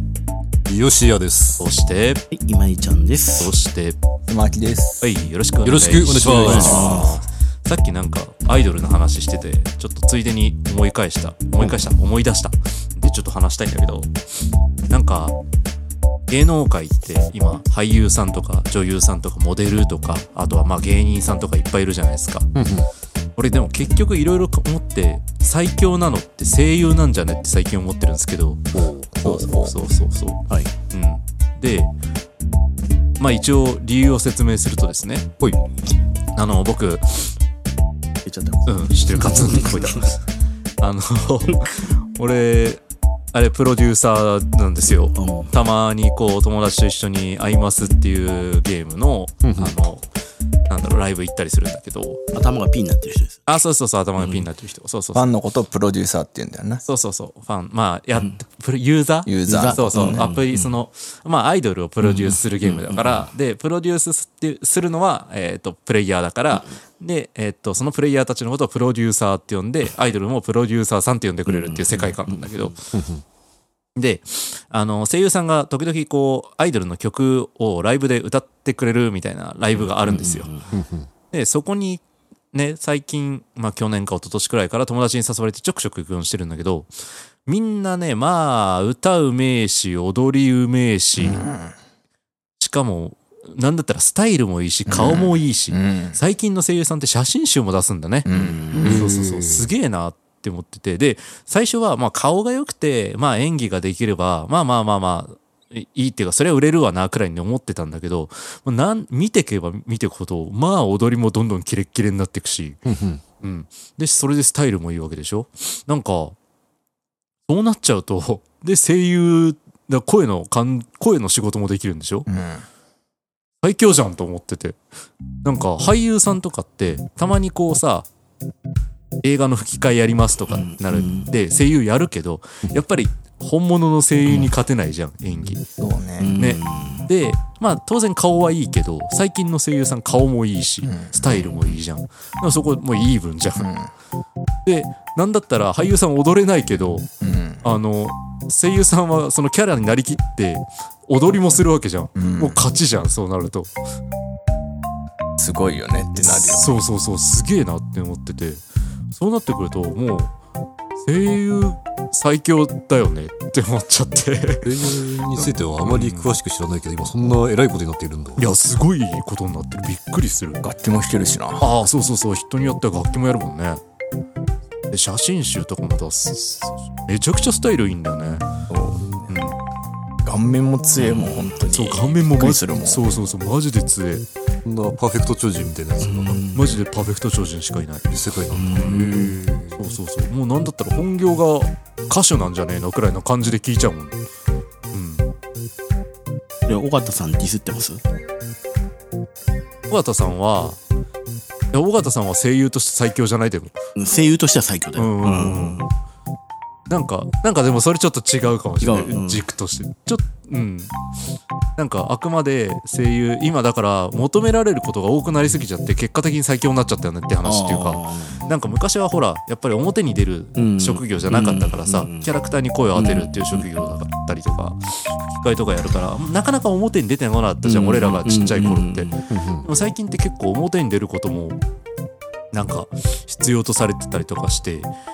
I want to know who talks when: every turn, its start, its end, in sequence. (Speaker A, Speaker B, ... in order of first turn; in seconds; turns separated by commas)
Speaker A: 0.7-1.7, Speaker B: 1.6-2.2, Speaker C: 2.3-3.5, Speaker B: 3.4-4.0, Speaker D: 4.3-5.1, Speaker B: 5.0-14.1, Speaker A: 5.6-7.0, Speaker C: 6.2-7.1, Speaker D: 6.6-7.1, Speaker B: 14.9-15.3, Speaker B: 16.3-22.5, Speaker A: 22.5-22.9, Speaker B: 23.4-28.6, Speaker A: 28.7-29.2, Speaker D: 29.2-29.8, Speaker B: 29.2-31.9, Speaker B: 33.2-35.3, Speaker B: 36.4-37.3, Speaker C: 38.2-40.1, Speaker B: 38.7-40.1, Speaker B: 40.8-42.8, Speaker B: 43.3-50.0, Speaker C: 45.1-45.5, Speaker A: 49.4-49.7, Speaker B: 50.7-52.2, Speaker C: 52.3-53.4, Speaker B: 53.5-55.3, Speaker C: 54.2-54.5, Speaker D: 55.1-56.8, Speaker B: 56.9-72.8, Speaker D: 59.2-60.2, Speaker C: 59.4-60.7, Speaker C: 62.0-63.3, Speaker C: 71.5-72.7, Speaker A: 72.9-73.2, Speaker B: 74.0-80.5, Speaker C: 80.0-80.7, Speaker A: 80.7-81.1, Speaker B: 81.3-82.0, Speaker B: 82.5-86.9, Speaker B: 87.5-91.4, Speaker D: 91.2-91.7, Speaker B: 92.6-98.3, Speaker D: 94.9-96.2, Speaker D: 98.2-99.0, Speaker C: 98.3-98.9, Speaker A: 98.8-99.7, Speaker B: 98.8-112.8, Speaker A: 112.8-113.2, Speaker B: 113.4-116.3, Speaker B: 117.5-122.3, Speaker D: 122.3-122.6, Speaker B: 123.6-124.8, Speaker B: 125.4-128.1, Speaker B: 129.2-135.6, Speaker C: 130.5-131.3, Speaker D: 135.8-136.3, Speaker C: 136.2-137.1, Speaker B: 136.4-143.7, Speaker D: 140.8-141.8, Speaker D: 143.6-143.9, Speaker B: 144.6-147.1, Speaker D: 147.2-147.6, Speaker B: 147.6-153.7, Speaker D: 152.1-152.6, Speaker D: 155.4-156.8, Speaker B: 156.2-160.3, Speaker B: 161.0-164.8, Speaker A: 164.6-168.5, Speaker B: 165.3-166.3, Speaker B: 168.4-170.6, Speaker D: 170.6-171.7, Speaker B: 171.6-173.8, Speaker B: 174.9-178.5, Speaker D: 178.7-179.3, Speaker B: 179.3-179.6, Speaker D: 180.2-183.1, Speaker C: 181.0-181.5, Speaker B: 181.7-184.2, Speaker A: 184.6-186.4, Speaker C: 186.0-186.6, Speaker B: 186.5-189.1, Speaker A: 188.1-189.8, Speaker C: 188.5-189.3, Speaker B: 189.8-194.2, Speaker B: 194.9-195.3, Speaker C: 196.7-198.0, Speaker B: 199.9-200.8, Speaker B: 201.7-203.8, Speaker C: 203.9-205.8, Speaker B: 204.9-205.8, Speaker B: 206.9-210.9, Speaker C: 208.8-209.4, Speaker B: 211.8-231.6, Speaker C: 217.4-218.4, Speaker C: 220.6-222.3, Speaker C: 222.9-223.7, Speaker C: 227.6-229.2, Speaker A: 229.3-229.7, Speaker B: 232.5-234.9